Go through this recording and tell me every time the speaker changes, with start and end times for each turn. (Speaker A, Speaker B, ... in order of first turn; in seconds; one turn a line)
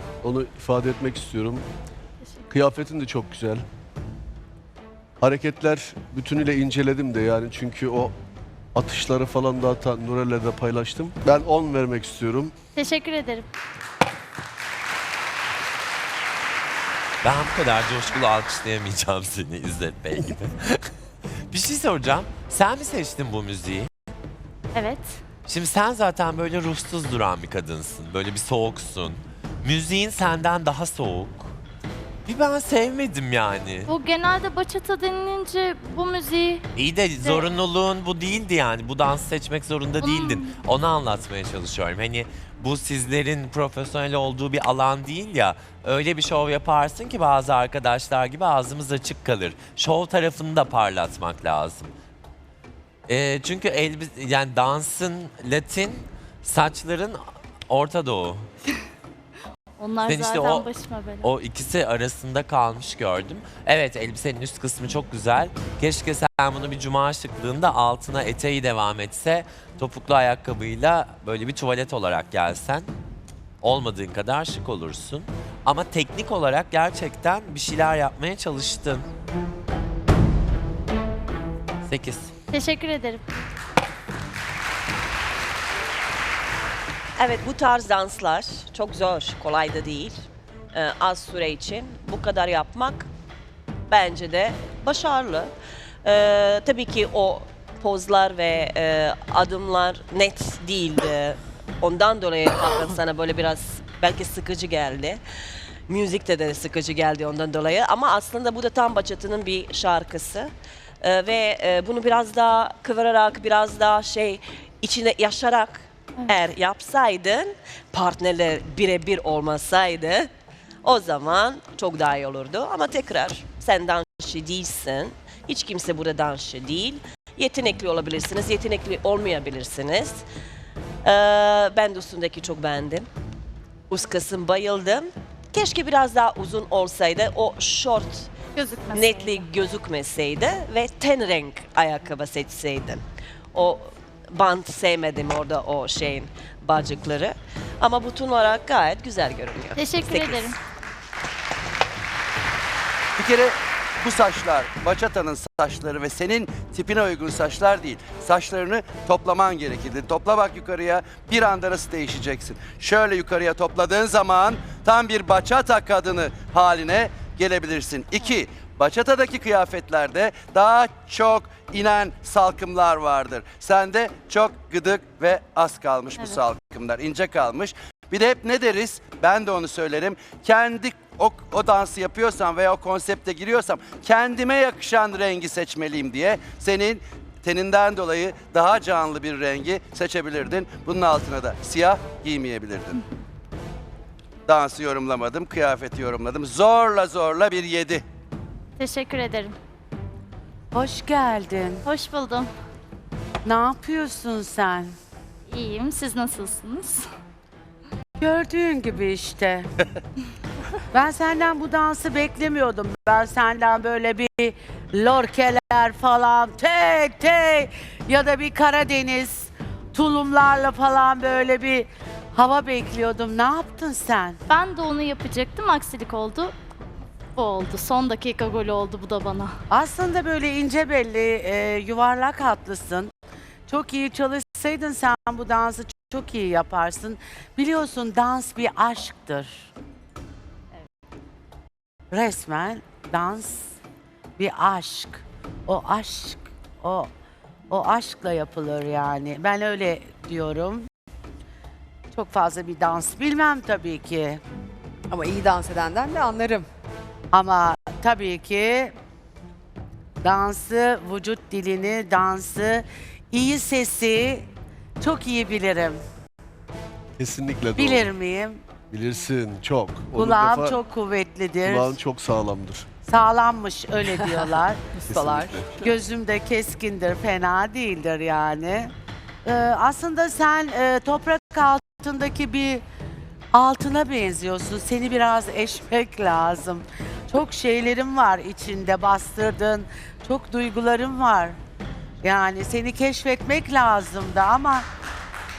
Speaker A: 0.2-1.7
Speaker A: 2.5-3.6
Speaker A: 5.2-8.1
Speaker A: 8.7-12.5
Speaker B: 12.7-13.4
Speaker C: 17.2-20.8
Speaker C: 21.5-23.9
Speaker B: 24.7-25.2
Speaker C: 25.5-31.5
Speaker C: 32.2-33.9
Speaker B: 33.9-36.7
Speaker C: 36.7-51.9
Speaker B: 37.2-37.5
Speaker B: 40.0-40.5
Speaker C: 53.1-58.4
Speaker B: 59.8-61.3
Speaker C: 60.0-60.7
Speaker C: 61.2-72.9
Speaker C: 73.6-79.0
Speaker C: 81.9-82.3
Speaker B: 82.5-83.2
Speaker D: 87.2-90.2
Speaker D: 90.7-93.1
Speaker D: 93.9-95.5
Speaker D: 96.0-105.2
Speaker D: 105.9-110.5
Speaker D: 111.0-120.3
Speaker D: 120.8-130.2
Speaker D: 131.0-133.1
Speaker D: 133.9-138.3
Speaker B: 138.6-139.4
Speaker D: 138.9-143.0
Speaker D: 143.5-150.5
Speaker B: 149.8-150.6
Speaker E: 153.2-193.0
Speaker E: 194.5-198.0
Speaker B: 198.8-199.6
Speaker F: 200.7-201.8
Speaker B: 201.8-202.5
Speaker F: 203.4-204.9
Speaker B: 205.5-207.1
Speaker F: 208.2-209.7
Speaker F: 210.9-224.4
Speaker B: 224.5-226.5
Speaker B: 227.3-229.5
Speaker F: 229.7-233.1
Speaker F: 233.7-239.7
Speaker F: 242.1-243.8
Speaker F: 244.4-247.1
Speaker F: 247.7-250.9
Speaker F: 252.1-254.4
Speaker G: 255.1-256.6
Speaker F: 257.3-258.9
Speaker F: 260.2-264.5
Speaker F: 265.0-266.0
Speaker A: 267.2-268.1
Speaker F: 267.8-268.6
Speaker A: 268.9-270.8
Speaker F: 270.1-271.9
Speaker A: 271.6-272.9
Speaker F: 273.0-274.8
Speaker G: 275.0-275.8
Speaker A: 275.1-275.7
Speaker F: 275.8-278.9
Speaker F: 279.4-282.8
Speaker F: 283.5-291.6
Speaker F: 292.2-294.9